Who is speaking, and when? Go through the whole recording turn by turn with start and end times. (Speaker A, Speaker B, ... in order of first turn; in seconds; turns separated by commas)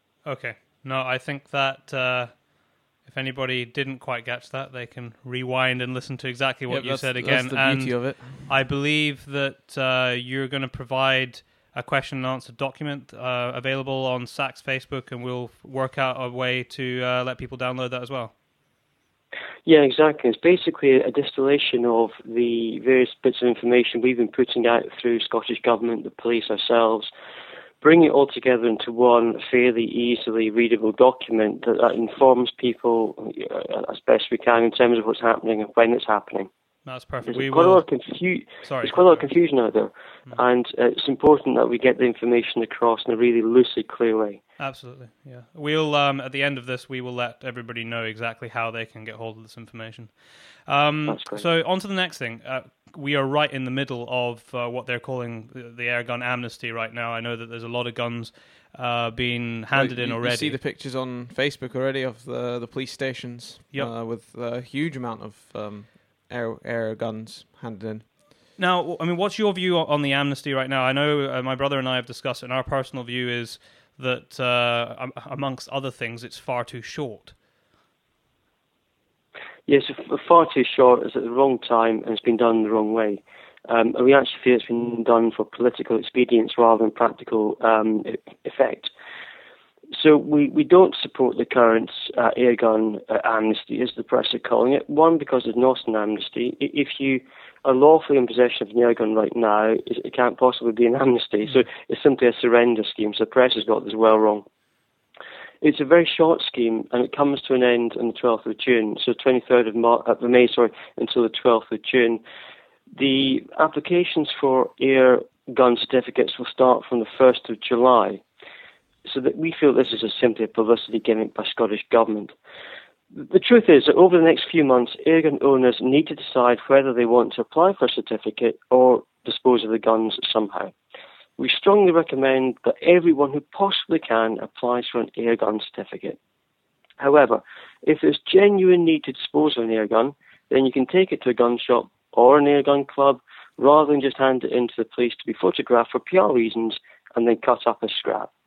Speaker A: 0.2-18.3, Speaker B: 6.7-8.5, Speaker C: 19.7-27.1, Speaker C: 27.8-36.5, Speaker A: 36.9-37.8, Speaker C: 37.2-44.4, Speaker A: 38.6-39.2, Speaker A: 44.6-60.6, Speaker C: 51.1-51.5, Speaker B: 59.7-68.2, Speaker A: 68.6-77.4, Speaker C: 79.7-88.9, Speaker C: 89.9-104.5, Speaker C: 105.6-112.2, Speaker C: 112.9-118.2, Speaker C: 119.0-122.3, Speaker C: 123.1-130.7, Speaker C: 131.4-136.2, Speaker C: 137.0-148.3